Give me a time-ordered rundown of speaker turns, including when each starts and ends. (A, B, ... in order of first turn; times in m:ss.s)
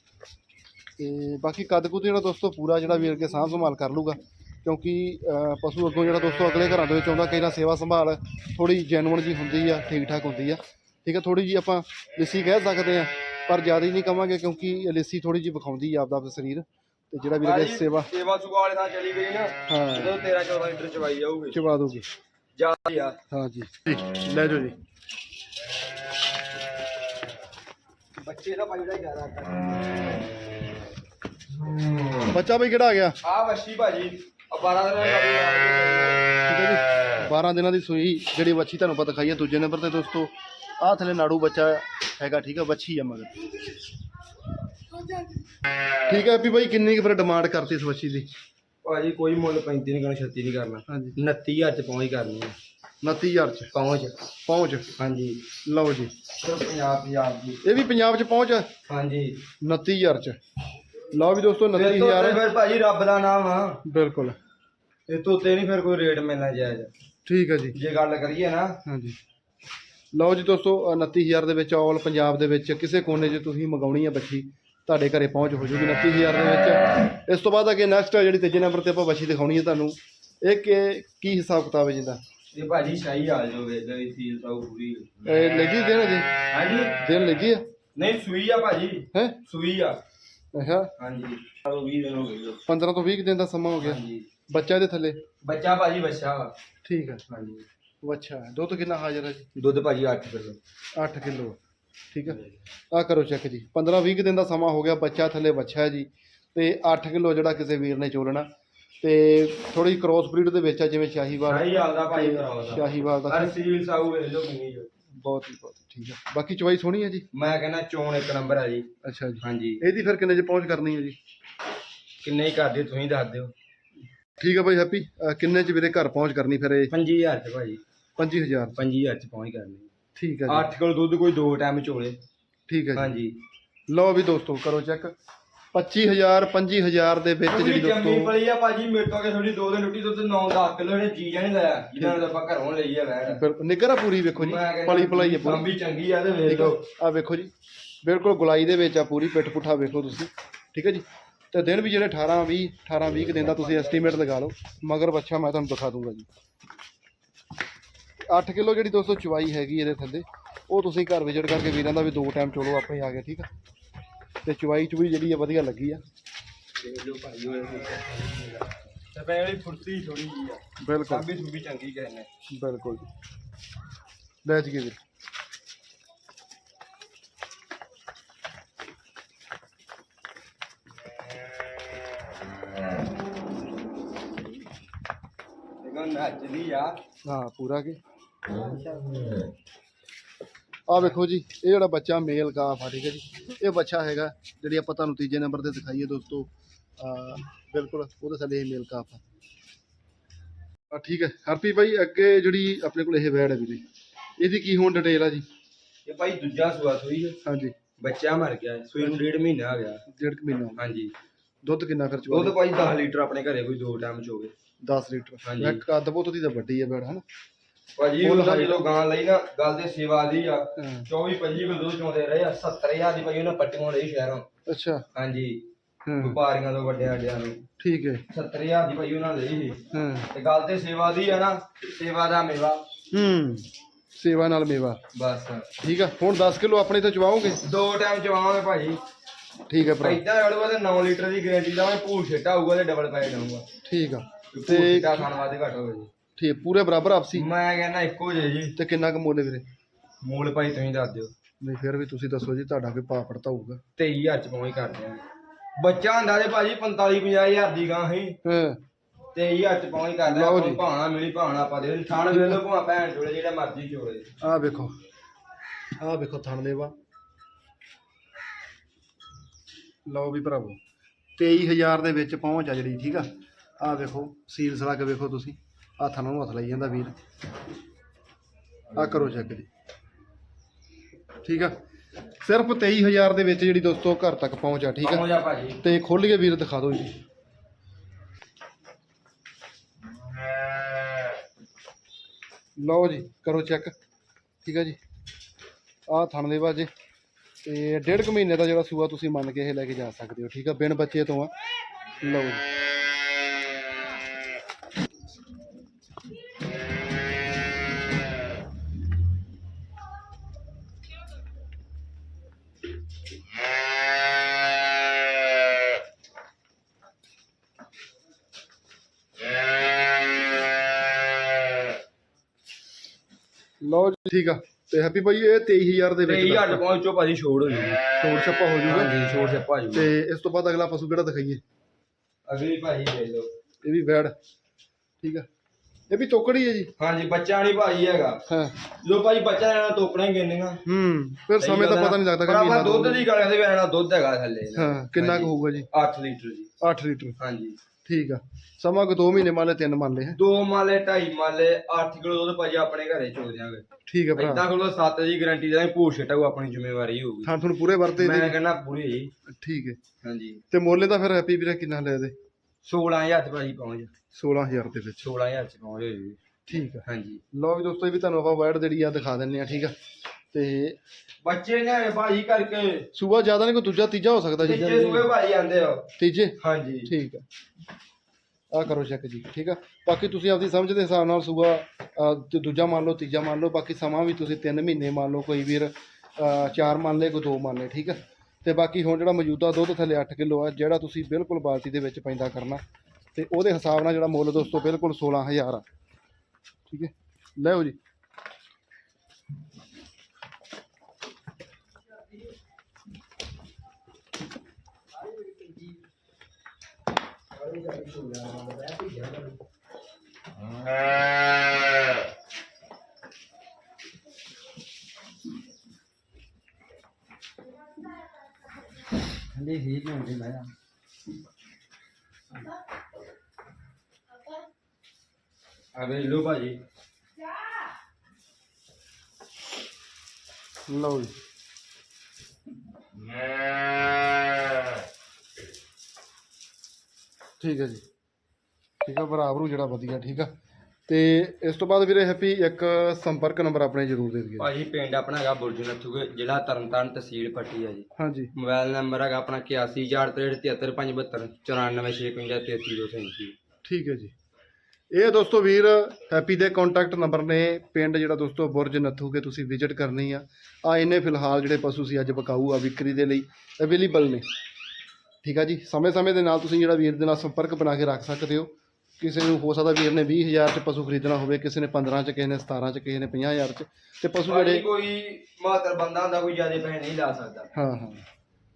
0:01.0-0:18.1 A
0:17.4-0:21.6 B
0:19.7-0:20.2 A
0:21.5-0:22.1 A
0:22.6-0:23.2 B
0:23.3-0:24.8 A
0:28.2-0:30.1 B
0:32.3-0:33.2 A
0:33.2-0:36.2 B
0:36.5-0:43.5 A
0:46.1-0:48.3 A
0:48.8-0:52.6 B
0:50.9-0:51.2 A
0:53.0-0:53.7 A
0:53.7-0:54.2 B
0:54.5-0:54.9 A
0:55.0-0:55.5 B
0:55.6-0:56.1 A
0:56.4-0:57.6 B
0:57.6-0:58.7 A
0:58.9-0:59.4 B
0:59.6-1:00.4 A
1:01.1-1:02.4 A
1:01.7-1:03.8 B
1:03.9-1:04.4 A
1:05.1-1:06.9 B
1:07.3-1:07.8 A
1:07.7-1:08.8 B
1:08.9-1:09.2 A
1:10.1-1:22.2 A
1:22.5-1:25.2 B
1:25.2-1:26.3 A
1:26.5-1:27.0 B
1:27.0-1:27.6 A
1:28.0-1:30.0 B
1:29.1-1:29.4 A
1:30.5-1:30.9 A
1:31.0-1:32.6 B
1:32.7-1:35.2 A
1:33.8-1:34.3 B
1:35.4-1:36.5 B
1:36.8-1:37.2 A
1:37.3-1:37.7 B
1:38.0-1:39.5 A
1:39.6-1:40.6 B
1:41.0-1:41.6 A
1:42.1-1:48.5 A
1:49.0-1:53.6 A
1:51.5-1:54.9 B
1:55.2-1:57.3 A
1:57.3-1:58.9 B
1:59.0-2:01.2 A
1:59.4-1:59.8 B
2:02.2-2:03.5 B
2:04.4-2:06.9 A
2:06.9-2:07.8 B
2:08.2-2:08.8 A
2:08.8-2:09.9 B
2:10.2-2:10.7 A
2:10.5-2:12.2 B
2:12.7-2:13.2 A
2:13.0-2:13.4 B
2:13.9-2:15.1 A
2:15.7-2:18.4 A
2:17.5-2:23.4 B
2:23.3-2:25.7 A
2:24.4-2:26.8 B
2:26.5-2:27.5 A
2:28.0-2:36.3 A
2:33.2-2:34.2 B
2:38.3-2:43.5 A
2:44.4-2:46.0 A
2:46.8-2:52.3 B
2:50.8-2:51.3 A
2:52.5-2:53.1 A
2:54.4-2:55.0 A
3:05.8-3:07.0 B
3:07.2-3:08.0 A
3:10.9-3:19.2 A
3:20.9-3:23.8 A
3:24.4-3:25.4 A
3:26.1-3:27.4 B
3:27.4-3:27.7 A
3:28.0-3:30.0 B
3:29.0-3:29.2 A
3:30.1-3:30.8 A
3:30.8-3:31.1 B
3:31.6-3:32.6 A
3:32.3-3:34.5 B
3:34.8-3:37.2 A
3:35.4-3:35.8 B
3:38.0-3:44.5 B
3:38.2-3:38.9 A
3:40.8-3:41.1 A
3:44.7-3:45.0 A
3:45.2-3:45.6 B
3:46.1-3:46.4 A
3:46.2-3:47.6 B
3:47.8-3:48.2 A
3:48.3-3:49.8 B
3:49.9-3:50.3 A
3:50.3-3:52.8 B
3:53.1-3:55.0 A
3:55.2-3:55.7 B
3:55.8-3:57.6 A
3:57.6-3:59.0 B
3:59.7-4:00.2 A
4:00.0-4:03.7 B
4:03.9-4:05.3 A
4:04.5-4:06.1 B
4:06.4-4:07.5 A
4:07.3-4:08.8 B
4:08.8-4:09.6 A
4:10.2-4:11.3 B
4:11.6-4:13.8 A
4:14.0-4:15.2 B
4:15.8-4:18.4 B
4:18.4-4:18.8 A
4:19.3-4:24.3 B
4:20.2-4:20.8 A
4:22.3-4:22.6 A
4:24.4-4:24.9 A
4:26.0-4:26.9 A
4:30.1-4:30.8 A
4:31.4-4:33.3 A
4:33.8-4:37.1 A
4:39.0-4:39.7 A
4:41.4-4:41.7 A
4:42.4-4:45.3 A
4:45.0-4:45.8 B
4:45.8-4:47.2 A
4:52.8-4:53.9 A
4:54.6-4:55.0 A
4:56.1-4:56.9 A
4:57.6-5:01.5 A
5:02.2-5:02.6 A
5:23.8-5:26.8 A
5:26.3-5:28.0 B
5:28.2-5:29.2 A
5:28.9-5:30.1 B
5:29.9-5:31.6 A
5:32.5-5:33.5 B
5:33.8-5:34.3 A
5:36.1-5:36.9 A
5:37.0-5:38.4 B
5:38.5-5:38.8 A
5:39.0-5:40.8 B
5:40.9-5:43.3 A
5:41.6-5:46.7 B
5:44.8-5:45.9 A
5:46.8-5:47.4 A
5:47.4-5:47.8 B
5:48.1-5:50.4 A
5:50.4-5:57.5 B
5:54.1-5:54.7 A
5:57.4-5:58.6 A
5:58.2-5:59.3 B
5:59.5-6:00.0 A
6:00.2-6:00.6 B
6:00.7-6:02.4 A
6:02.8-6:04.1 B
6:04.3-6:05.2 A
6:05.2-6:06.4 B
6:06.7-6:09.9 A
6:07.1-6:07.4 B
6:10.5-6:11.0 A
6:11.4-6:13.1 B
6:13.2-6:15.3 A
6:14.6-6:17.1 B
6:16.2-6:17.4 A
6:18.7-6:32.8 A
6:33.3-6:35.8 A
6:36.9-6:38.0 A
6:47.6-6:49.4 B
6:59.6-7:00.7 B
7:06.0-7:06.8 B
7:10.9-7:11.3 A
7:17.6-7:18.0 A
7:19.0-7:20.5 A
7:21.1-7:24.7 A
7:24.6-7:33.6 B
7:28.2-7:28.5 A
7:33.8-7:34.3 A
7:35.1-7:44.4 A
7:45.4-7:54.9 A
7:54.5-7:57.7 B
7:57.7-7:58.2 A